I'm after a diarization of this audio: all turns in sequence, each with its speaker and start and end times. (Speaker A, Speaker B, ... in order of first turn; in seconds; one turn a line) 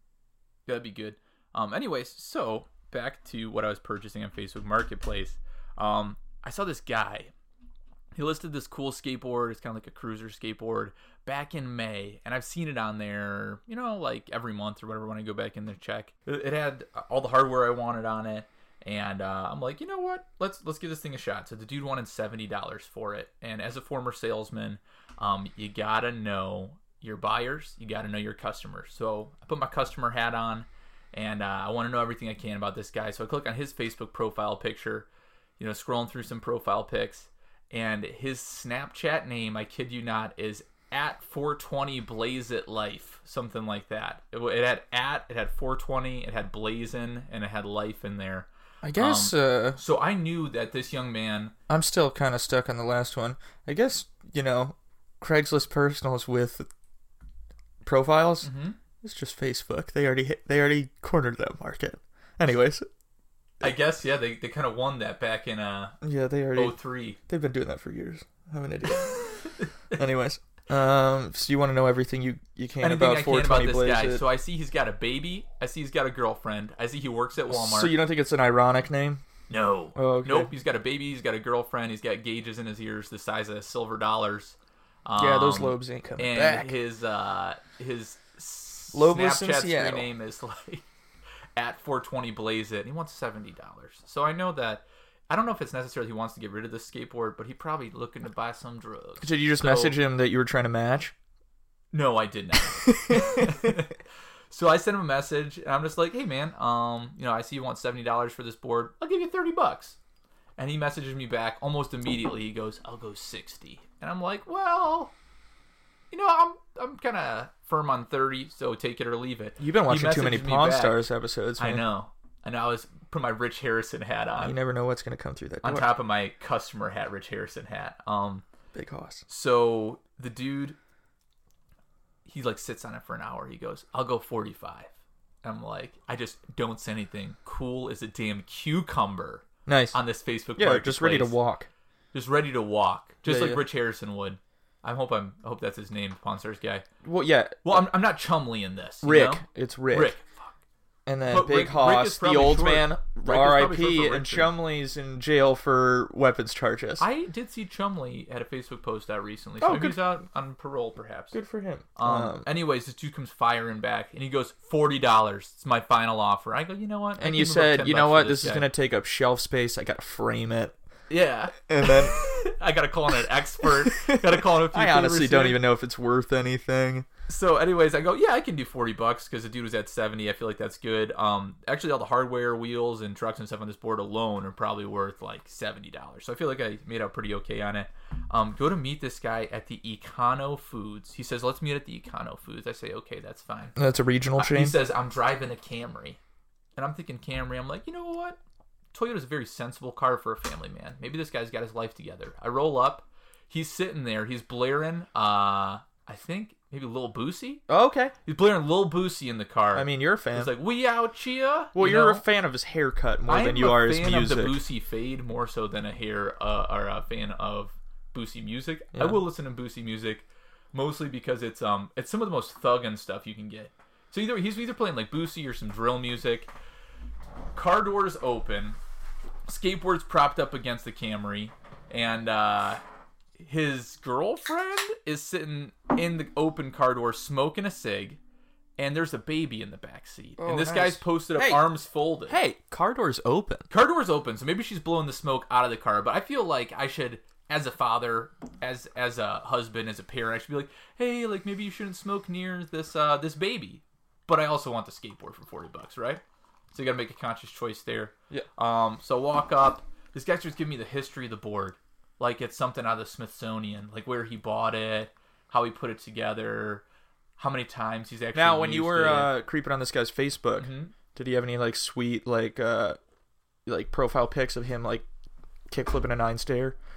Speaker A: 0.7-7.3
Speaker A: 8.1-51.5
Speaker B: 48.8-49.8
Speaker B: 51.7-56.7
Speaker B: 57.8-58.5
Speaker A: 58.4-58.8
Speaker B: 59.0-62.9
Speaker A: 63.6-66.0
Speaker B: 66.0-69.2
Speaker A: 66.5-67.2
Speaker A: 69.0-69.7
Speaker B: 69.9-74.2
Speaker A: 72.8-78.0
Speaker B: 77.5-79.2
Speaker A: 79.5-90.8
Speaker B: 80.0-80.5
Speaker B: 85.2-86.8
Speaker B: 88.9-90.1
Speaker A: 91.6-100.0
Speaker B: 99.2-101.1
Speaker A: 101.9-104.0
Speaker B: 102.8-103.8
Speaker A: 104.5-110.0
Speaker A: 110.6-115.1
Speaker A: 116.1-121.0
Speaker B: 119.6-121.8
Speaker A: 121.6-124.6
Speaker B: 124.4-125.9
Speaker A: 125.6-128.4
Speaker B: 128.7-129.2
Speaker A: 129.3-130.8
Speaker A: 132.3-134.9
Speaker A: 135.4-141.4
Speaker B: 139.7-140.0
Speaker B: 140.6-141.7
Speaker A: 142.1-146.8
Speaker B: 143.3-143.7
Speaker B: 147.0-147.9
Speaker A: 147.6-150.5
Speaker B: 149.0-150.2
Speaker B: 151.1-157.1
Speaker A: 151.3-154.5
Speaker A: 157.0-161.4
Speaker B: 159.6-160.0
Speaker B: 161.3-162.5
Speaker A: 162.0-168.7
Speaker B: 167.2-170.8
Speaker A: 171.1-175.6
Speaker B: 171.7-172.2
Speaker B: 173.6-177.1
Speaker A: 177.3-193.8
Speaker B: 193.8-194.8
Speaker A: 194.4-196.2
Speaker A: 196.8-198.4
Speaker A: 198.9-207.6
Speaker B: 207.7-208.1
Speaker A: 208.3-212.2
Speaker B: 209.7-210.5
Speaker B: 211.8-214.6
Speaker A: 213.3-226.5
Speaker B: 218.9-219.2
Speaker A: 227.6-228.8
Speaker A: 229.5-232.8
Speaker A: 233.4-238.2
Speaker A: 238.8-242.4
Speaker B: 240.4-241.7
Speaker B: 242.3-243.7
Speaker A: 243.7-266.8
Speaker A: 267.4-269.4
Speaker B: 268.3-273.0
Speaker A: 270.6-270.9
Speaker B: 273.7-275.1
Speaker B: 275.7-276.8